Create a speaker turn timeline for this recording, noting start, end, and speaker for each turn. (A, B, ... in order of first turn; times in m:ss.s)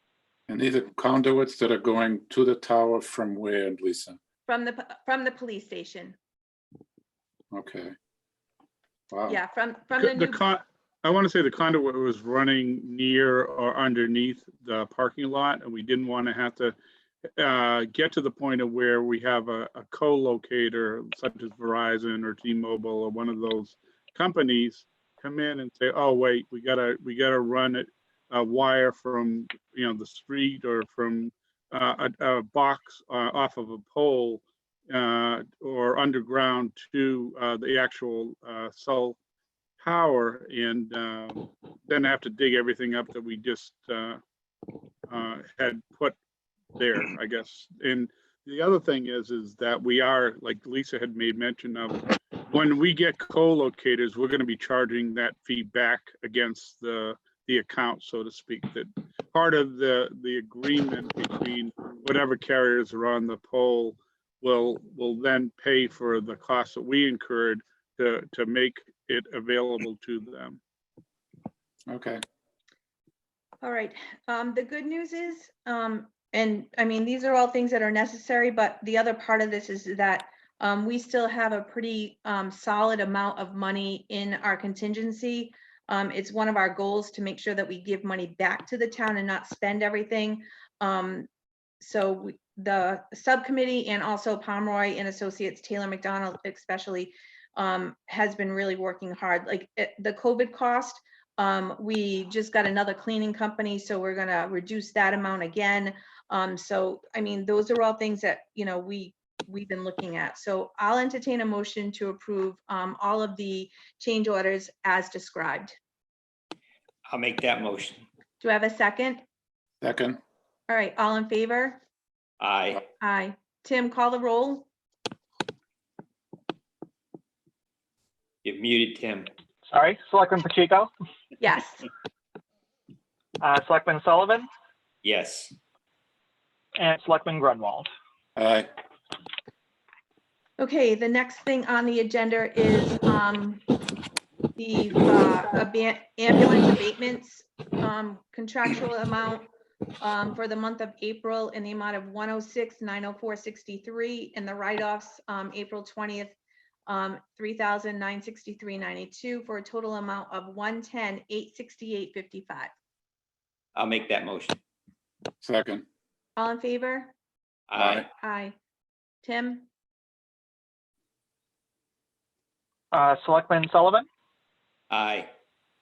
0:00.5-0:04.2 A
0:04.4-0:06.1 B
0:07.5-0:07.9 A
0:09.1-0:09.4 A
0:09.3-0:10.4 B
0:10.0-0:16.8 C
0:17.4-0:39.2 C
0:39.8-0:44.2 C
0:45.1-0:46.2 C
0:46.8-1:10.6 C
1:11.9-1:12.2 A
1:13.6-1:31.3 B
1:31.8-1:55.8 B
1:57.1-1:58.0 D
1:58.4-1:59.2 B
1:59.8-2:00.2 A
2:00.7-2:01.8 B
2:02.4-2:02.8 D
2:03.0-2:04.7 B
2:08.4-2:09.3 D
2:09.7-2:10.9 E
2:11.4-2:11.8 B
2:13.4-2:14.5 E
2:15.0-2:15.5 D
2:16.8-2:17.9 E
2:18.4-2:18.7 A
2:20.6-2:23.6 B
2:24.6-2:29.5 B
2:30.0-2:36.4 B
2:36.9-2:42.7 B
2:43.7-2:44.6 D
2:45.4-2:45.8 A
2:46.4-2:47.1 B
2:47.7-2:48.1 D
2:47.8-2:48.0 A
2:48.2-2:48.5 B
2:49.2-2:49.7 B
2:52.9-2:54.0 E
2:54.9-2:55.3 D